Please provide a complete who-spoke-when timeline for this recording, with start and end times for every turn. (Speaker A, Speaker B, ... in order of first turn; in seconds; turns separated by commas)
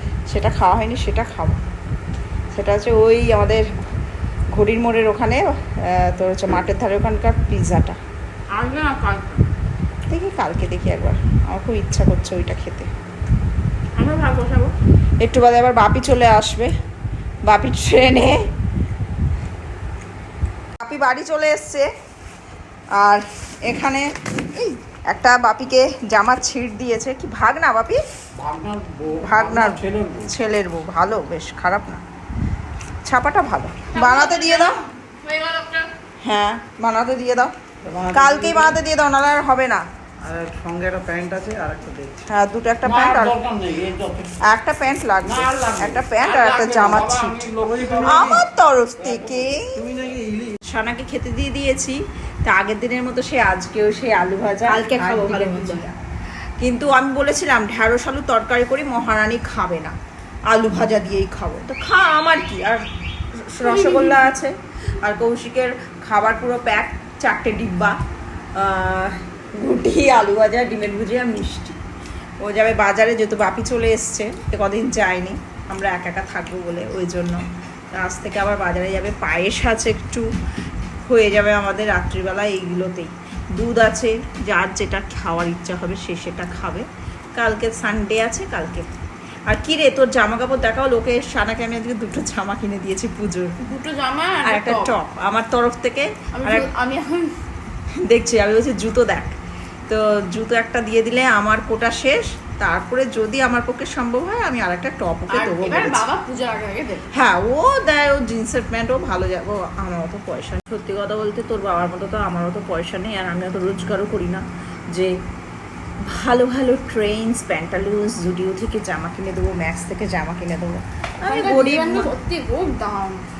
Speaker A: 0.3-1.6, Speaker A: 2.5-3.6, Speaker A: 4.5-8.0, Speaker B: 8.5-9.4, Speaker A: 10.1-12.9, Speaker B: 13.9-14.7, Speaker A: 15.2-16.7, Speaker A: 17.4-18.4, Speaker A: 20.8-21.9, Speaker A: 23.0-28.0, Speaker C: 28.4-30.2, Speaker A: 29.1-32.0, Speaker A: 33.0-34.8, Speaker B: 33.9-35.9, Speaker A: 36.2-37.5, Speaker C: 37.8-38.7, Speaker A: 38.1-39.8, Speaker C: 40.2-42.2, Speaker A: 42.2-43.4, Speaker C: 42.9-44.3, Speaker A: 44.4-49.9, Speaker C: 45.4-48.4, Speaker C: 49.9-50.5, Speaker A: 50.6-56.0, Speaker B: 54.7-55.9, Speaker A: 56.6-60.0, Speaker A: 60.5-62.8, Speaker A: 63.4-67.9, Speaker B: 63.6-64.3, Speaker A: 68.5-71.8, Speaker A: 72.4-80.3, Speaker A: 81.0-88.9, Speaker A: 89.5-93.5, Speaker B: 93.6-95.0, Speaker A: 94.4-96.7, Speaker B: 96.3-97.3, Speaker A: 98.1-99.3, Speaker A: 99.9-106.0, Speaker B: 105.3-107.1, Speaker A: 107.1-115.1, Speaker A: 116.0-122.1, Speaker B: 121.2-123.2